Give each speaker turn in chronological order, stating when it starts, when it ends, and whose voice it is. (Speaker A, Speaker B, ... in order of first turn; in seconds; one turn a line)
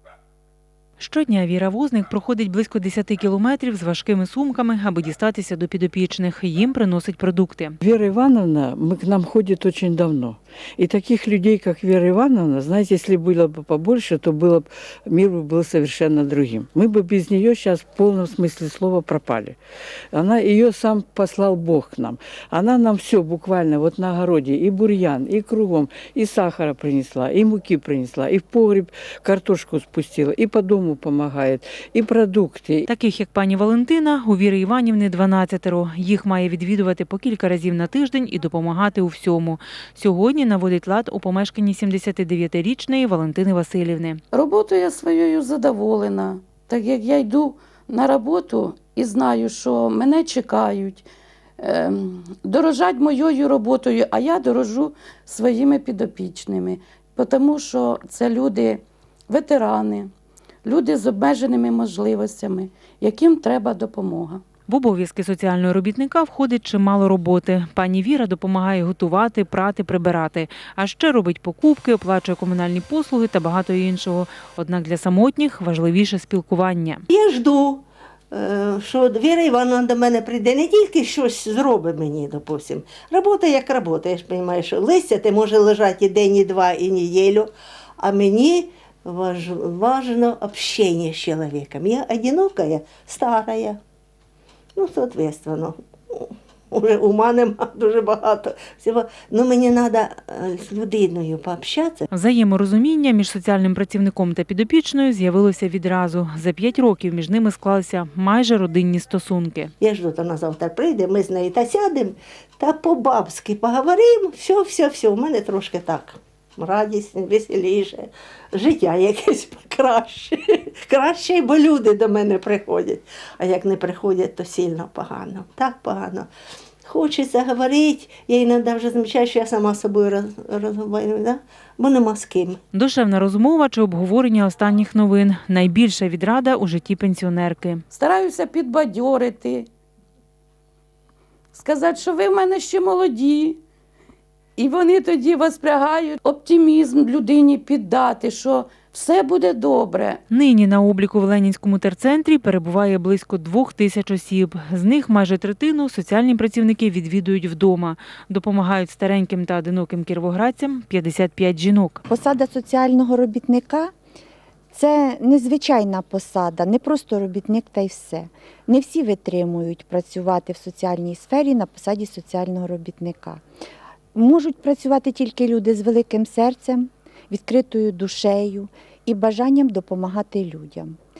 Speaker A: 1.0-7.8
Speaker B: 7.8-19.6
Speaker B: 20.1-32.9
Speaker A: 32.9-44.2
Speaker C: 44.3-51.0
Speaker C: 51.6-60.1
Speaker C: 60.6-64.4
Speaker A: 64.7-77.0
Speaker D: 77.1-93.8
Speaker D: 94.7-102.0
Speaker A: 102.1-109.7
Speaker D: 109.8-126.3
Speaker D: 126.8-132.6
Speaker A: 132.7-137.8
Speaker C: 137.9-139.7
Speaker C: 141.5-143.6
Speaker C: 144.6-150.2
Speaker A: 150.3-162.0
Speaker E: 162.1-163.9
Speaker E: 164.7-173.4
Speaker E: 174.1-181.0